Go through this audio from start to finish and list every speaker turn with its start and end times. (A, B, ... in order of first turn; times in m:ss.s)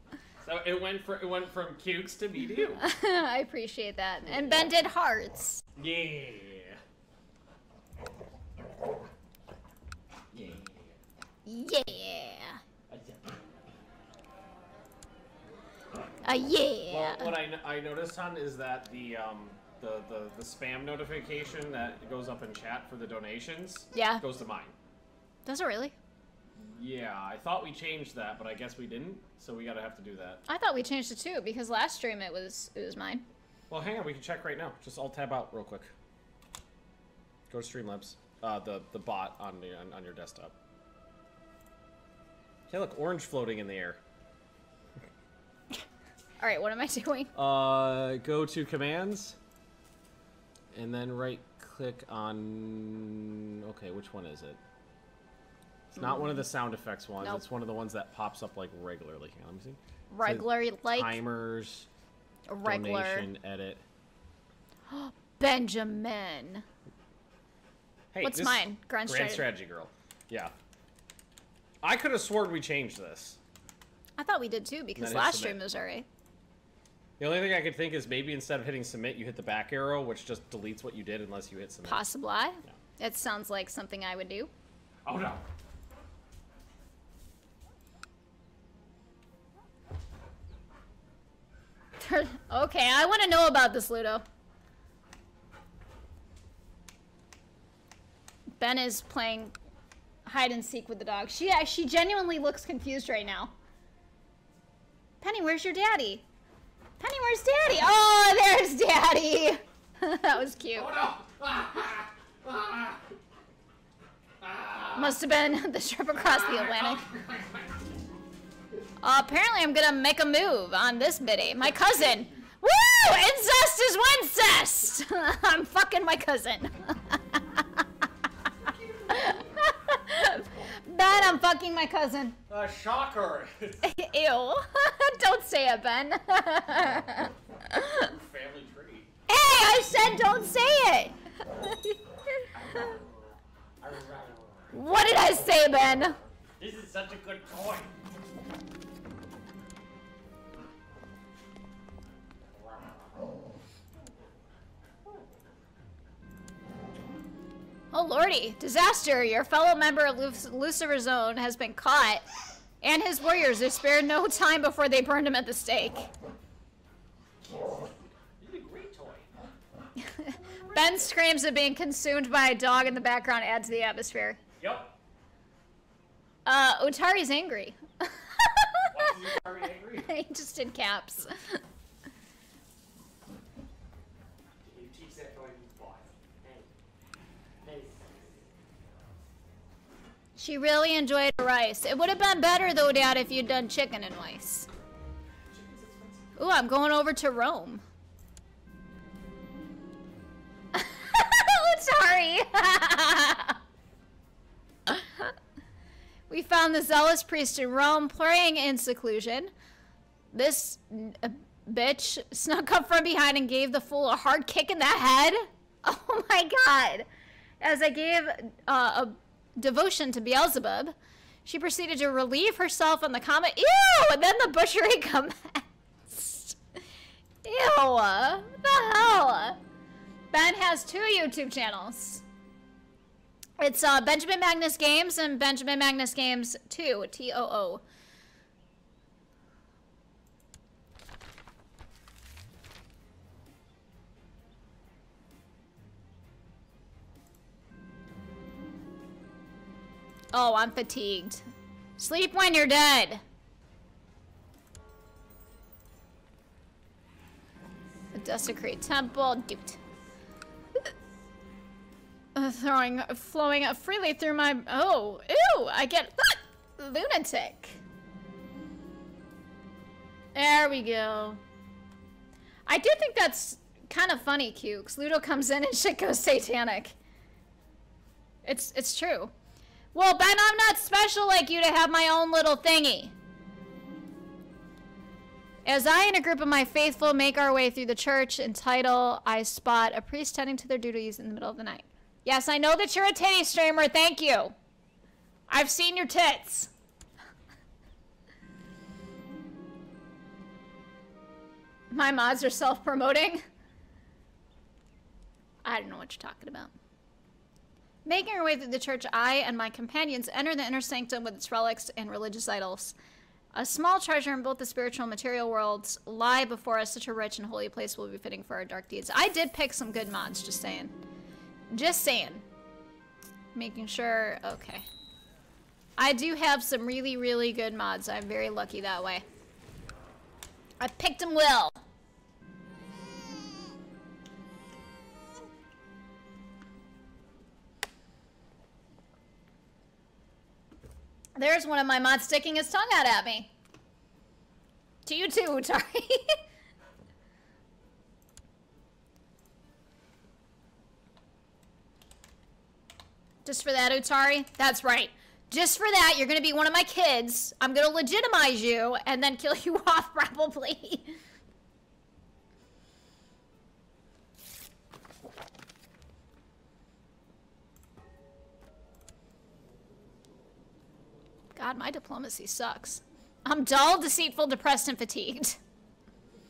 0:00.4-0:02.8 A
0:02.8-0:05.6 B
0:04.2-0:04.7 A
0:05.8-0:06.8 A
0:10.3-0:11.0 A
0:11.4-0:12.6 B
0:12.9-0:13.4 A
0:16.2-0:17.3 B
0:16.9-0:24.7 A
0:23.9-0:24.2 B
0:25.4-0:25.9 B
0:26.6-0:30.4 A
0:30.5-0:33.2 B
0:33.7-0:35.9 A
0:37.5-0:40.5 A
0:42.7-0:44.0 A
0:46.4-0:47.3 B
0:47.4-0:49.4 A
0:50.7-0:54.6 A
0:55.9-1:01.9 A
1:00.1-1:01.2 B
1:02.5-1:03.3 B
1:02.6-1:03.8 A
1:04.9-1:06.6 B
1:08.1-1:10.5 A
1:08.2-1:09.4 B
1:11.8-1:13.4 A
1:14.2-1:16.1 B
1:15.0-1:15.6 A
1:17.2-1:22.0 A
1:21.9-1:24.5 B
1:25.0-1:25.4 A
1:32.0-1:34.2 B
1:38.6-1:39.5 B
1:40.2-1:43.5 B
1:45.2-1:46.2 B
1:47.0-1:50.9 B
1:50.8-1:53.0 A
1:54.4-1:55.1 A
1:54.9-1:57.1 B
1:56.7-1:57.5 A
1:59.0-2:07.8 B
2:08.6-2:09.5 A
2:09.1-2:12.4 B
2:12.5-2:13.9 A
2:13.8-2:18.0 B
2:18.0-2:19.1 A
2:19.3-2:22.9 B
2:22.6-2:23.1 A
2:23.8-2:24.7 A
2:24.7-2:26.2 B
2:26.6-2:27.9 A
2:37.9-2:42.2 B
2:42.8-2:46.1 B
2:48.4-2:49.3 A
2:50.0-2:54.4 B
2:50.5-2:51.0 A
2:54.6-2:54.9 A
2:56.4-2:59.2 B
2:58.9-3:00.1 A
3:00.0-3:01.6 B
3:04.6-3:06.7 A
3:07.6-3:08.0 A
3:10.4-3:14.7 B
3:15.5-3:16.3 A
3:16.4-3:17.8 B
3:20.7-3:23.6 B
3:24.9-3:25.3 B
3:26.3-3:29.5 B
3:30.3-3:37.1 B
3:37.6-3:46.6 B
3:47.4-3:49.6 B
3:50.3-3:52.2 B
3:53.6-3:57.8 B
4:10.3-4:11.4 B
4:12.0-4:13.2 B
4:18.1-4:19.8 B
4:22.4-4:27.8 B
4:30.4-4:31.4 B
4:32.7-4:37.0 B
4:38.4-4:39.3 B
4:39.9-4:43.1 B
4:45.6-4:54.5 B
4:55.5-4:56.7 B
5:01.9-5:03.4 B
5:05.6-5:06.7 B
5:08.0-5:12.9 B
5:13.5-5:20.9 B
5:21.7-5:22.4 B
5:23.5-5:24.9 B
5:26.0-5:29.2 B
5:30.8-5:31.8 B
5:41.4-5:43.5 B
5:45.0-5:46.4 B
5:53.4-6:01.1 B
6:11.5-6:15.6 B